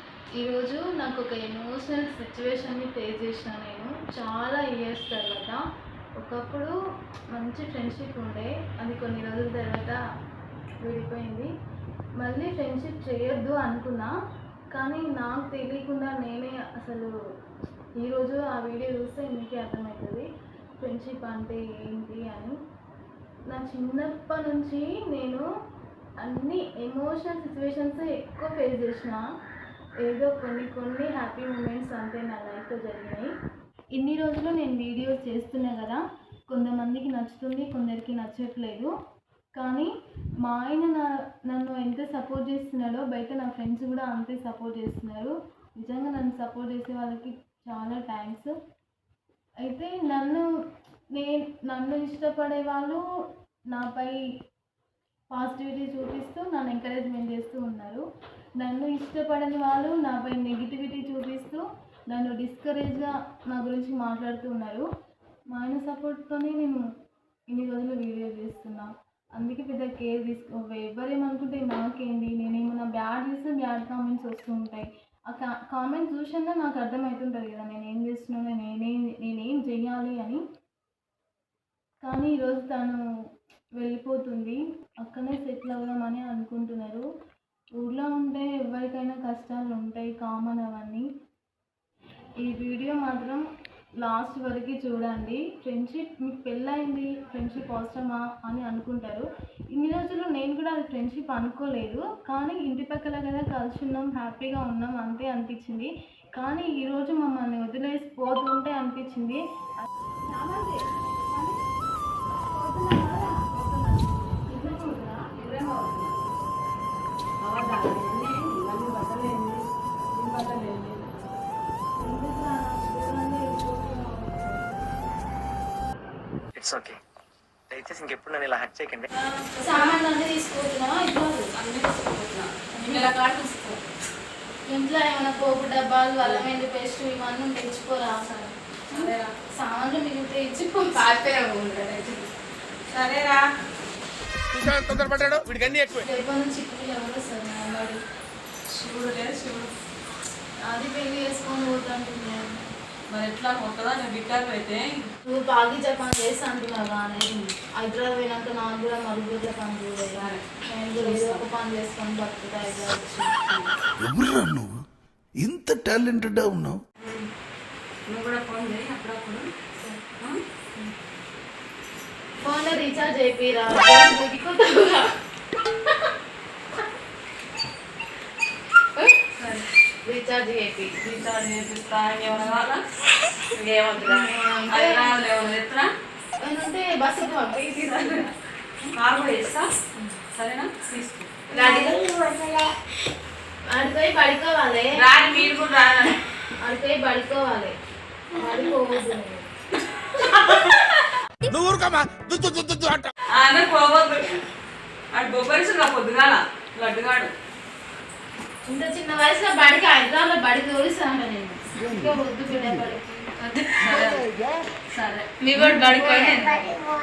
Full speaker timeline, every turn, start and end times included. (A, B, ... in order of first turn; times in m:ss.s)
0:00.4-0:05.6 A
0:06.2-0:06.7 A
0:07.3-0:10.0 A
0:10.8-0:11.5 A
0:12.2-0:14.1 A
0:14.7-0:17.1 A
0:18.0-0:20.3 A
0:20.8-0:22.6 A
0:23.5-0:25.4 A
0:26.2-0:29.2 A
0:30.0-0:33.3 A
0:33.9-0:38.9 A
0:39.5-0:39.9 A
0:40.4-0:48.5 A
0:49.6-0:50.4 A
0:51.1-0:53.0 A
0:53.7-0:54.2 A
0:55.3-0:58.0 A
0:58.6-1:04.8 A
1:05.5-1:06.8 A
1:07.5-1:20.4 A
1:22.0-1:23.0 A
1:23.8-1:27.0 A
1:27.8-1:31.0 A
1:32.4-1:33.5 A
1:34.0-1:51.6 A
1:52.5-1:53.9 A
1:54.4-1:55.3 A
1:55.3-1:56.2 B
1:57.4-1:59.6 B
2:00.1-2:01.1 B
2:02.0-2:04.7 A
2:06.6-2:07.0 C
2:07.7-2:09.1 C
2:09.4-2:10.0 B
2:09.6-2:11.5 A
2:11.6-2:13.7 B
2:12.7-2:13.5 A
2:14.7-2:22.2 A
2:18.9-2:19.3 B
2:22.9-2:23.4 B
2:24.6-2:25.9 C
2:26.0-2:28.0 A
2:28.7-2:29.7 B
2:30.7-2:32.7 A
2:33.1-2:35.1 B
2:35.2-2:43.3 A
2:40.2-2:40.4 B
2:41.0-2:41.4 B
2:43.5-2:43.7 B
2:44.0-2:44.7 D
2:45.4-2:46.8 D
2:47.0-2:47.3 B
2:48.1-2:49.5 B
2:52.4-2:55.1 A
2:59.4-2:59.6 B
3:00.0-3:01.2 A
3:01.2-3:02.8 B
3:03.5-3:04.3 E
3:04.1-3:05.1 A
3:04.7-3:05.9 B
3:06.4-3:08.3 A
3:07.8-3:08.3 B
3:08.9-3:09.7 B
3:10.3-3:11.4 B
3:11.5-3:12.4 A
3:11.5-3:11.9 E
3:13.6-3:15.0 A
3:14.9-3:16.2 B
3:16.6-3:17.7 A
3:18.3-3:19.5 A
3:21.7-3:23.0 C
3:23.3-3:24.4 B
3:25.1-3:27.3 B
3:28.6-3:33.6 A
3:33.7-3:34.3 B
3:34.9-3:35.3 B
3:35.4-3:36.8 E